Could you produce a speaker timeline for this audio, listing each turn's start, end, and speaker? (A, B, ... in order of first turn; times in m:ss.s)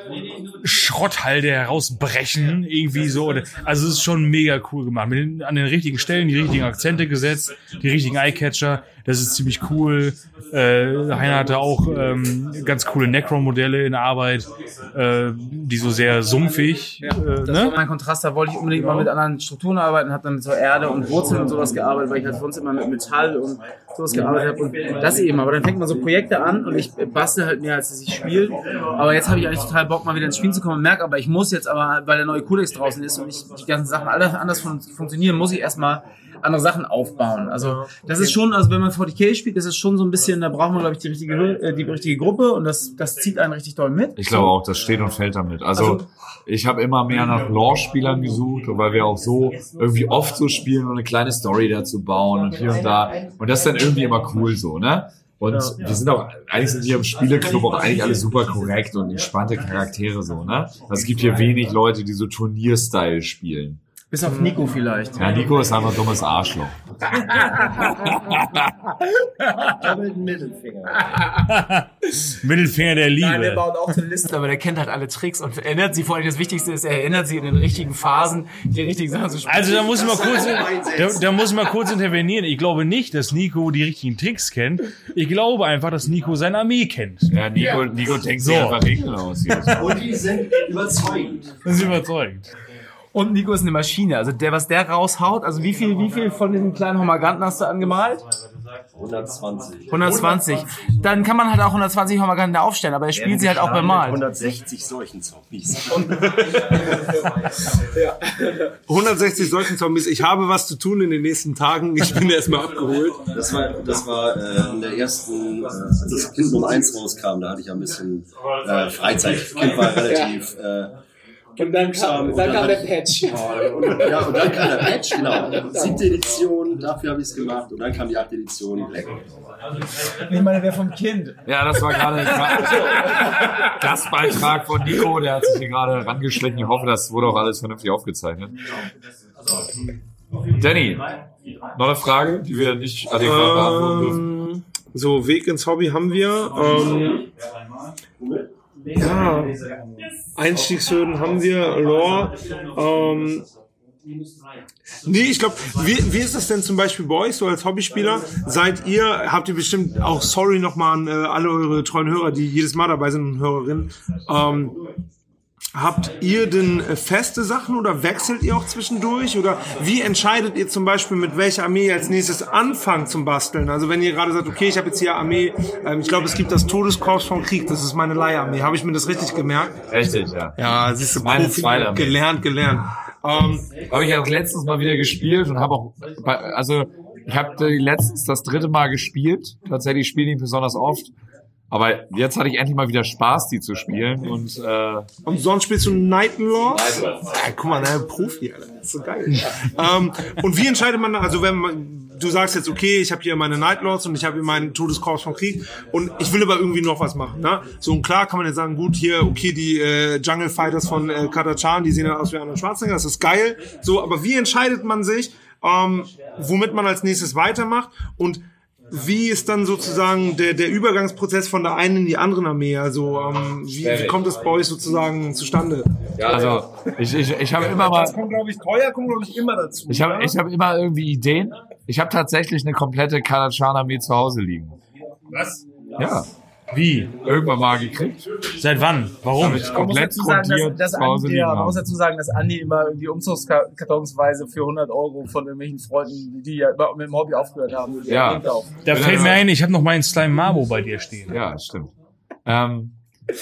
0:00.5-0:17.8 A
0:17.0-0:44.5 B
0:37.9-0:38.3 C
0:44.2-1:03.8 D
0:45.8-0:46.0 B
0:55.5-0:55.8 B
1:04.1-1:05.5 B
1:05.2-1:06.8 D
1:07.0-1:08.2 B
1:08.1-1:08.7 D
1:09.4-1:11.4 B
1:11.5-1:13.7 A
1:13.2-1:21.6 B
1:19.4-1:27.3 A
1:27.3-1:30.0 D
1:28.4-1:28.8 A
1:29.7-1:31.7 E
1:31.6-1:32.5 A
1:33.1-1:38.3 B
1:38.9-1:40.4 E
1:39.9-1:44.2 B
1:43.1-1:46.6 E
1:46.0-1:46.6 C
1:47.9-1:48.6 E
1:48.9-1:53.2 C
1:53.3-2:00.9 E
1:59.8-2:00.4 B
2:01.6-2:06.0 B
2:01.6-2:02.9 E
2:03.8-2:09.3 E
2:10.0-2:12.6 B
2:11.4-2:18.6 D
2:20.6-2:21.1 D
2:21.7-2:24.2 D
2:23.2-2:27.2 C
2:28.9-2:29.6 C
2:30.4-2:33.5 C
2:35.0-2:44.8 C
2:45.7-2:59.8 C
2:59.9-3:02.2 D
3:00.6-3:03.7 C
3:03.8-3:11.1 D
3:11.7-3:15.1 D
3:15.2-3:46.6 C
3:16.7-3:17.2 D
3:43.8-3:44.2 D
3:46.2-3:48.2 D
3:47.6-3:50.3 C
3:49.9-3:54.8 D
3:56.0-3:56.3 D
3:56.7-3:57.1 A
3:57.2-3:58.3 D
3:58.6-3:59.7 A
3:59.4-4:01.8 D
3:59.5-4:08.8 B
4:08.1-4:09.4 D
4:08.8-4:11.4 A
4:11.3-4:11.9 D
4:12.4-4:13.0 D